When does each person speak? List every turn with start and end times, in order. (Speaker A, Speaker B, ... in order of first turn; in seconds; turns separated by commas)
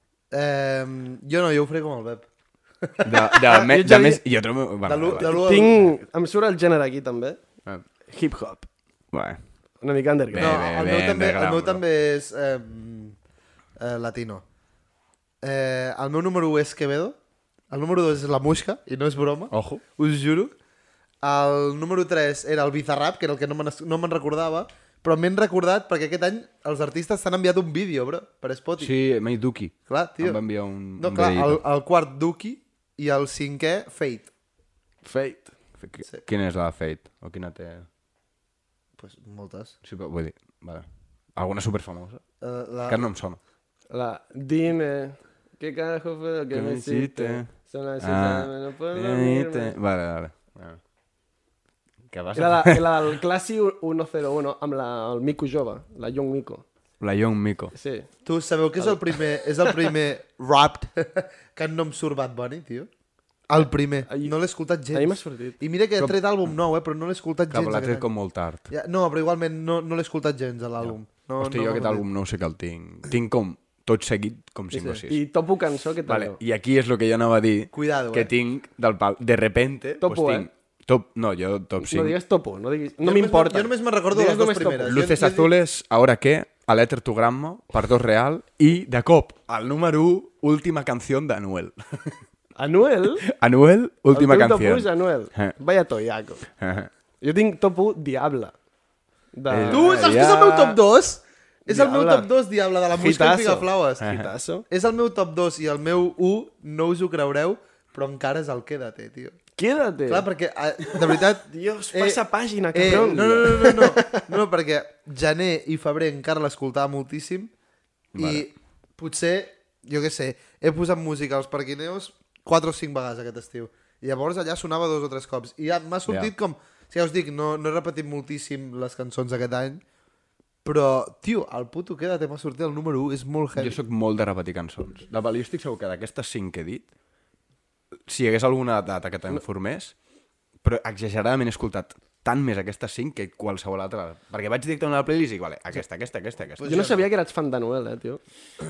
Speaker A: 0.3-2.3, Speaker A: 2.8-3.6, Speaker B: 3.0-5.3, Speaker C: 3.5-4.2, Speaker A: 4.8-5.8, Speaker C: 5.2-7.4, Speaker C: 8.1-8.7, Speaker B: 9.1-9.4, Speaker C: 9.8-10.6, Speaker B: 10.3-11.8, Speaker A: 10.4-13.2, Speaker A: 13.8-14.4, Speaker A: 15.4-17.2, Speaker A: 17.7-20.5, Speaker B: 19.5-19.8, Speaker A: 21.2-28.9, Speaker B: 28.8-31.6, Speaker A: 29.9-30.4, Speaker A: 31.0-34.3, Speaker C: 35.0-35.5, Speaker B: 35.8-37.9, Speaker A: 39.0-39.8, Speaker B: 39.8-42.2, Speaker A: 42.4-43.1, Speaker B: 42.9-43.4, Speaker C: 43.9-49.7, Speaker B: 46.5-50.8, Speaker B: 52.1-52.9, Speaker C: 52.3-56.7, Speaker B: 57.0-57.7, Speaker C: 57.7-58.1, Speaker A: 58.2-62.9, Speaker A: 63.5-68.1, Speaker C: 64.1-64.3, Speaker C: 64.9-65.6, Speaker B: 67.5-68.7, Speaker A: 68.7-72.0, Speaker B: 70.8-75.2, Speaker C: 74.7-76.4, Speaker B: 76.1-82.2, Speaker A: 77.7-78.3, Speaker C: 80.0-80.5, Speaker C: 81.8-85.0, Speaker A: 83.0-85.5, Speaker B: 84.9-92.2, Speaker C: 92.6-93.2, Speaker B: 93.3-95.5, Speaker C: 94.1-96.4, Speaker B: 96.6-96.9, Speaker C: 97.2-98.5, Speaker C: 99.3-100.1, Speaker B: 99.5-100.8, Speaker A: 99.7-104.1, Speaker C: 101.7-102.3, Speaker C: 102.9-104.7, Speaker B: 104.0-104.3, Speaker A: 104.7-109.4, Speaker C: 109.6-110.3, Speaker A: 110.1-112.2, Speaker C: 111.5-114.3, Speaker A: 112.7-117.5, Speaker B: 118.1-118.5, Speaker A: 118.2-129.8, Speaker A: 130.6-133.8, Speaker B: 133.6-136.9, Speaker B: 138.1-139.9, Speaker B: 140.6-146.8, Speaker A: 146.6-147.1, Speaker C: 146.6-148.2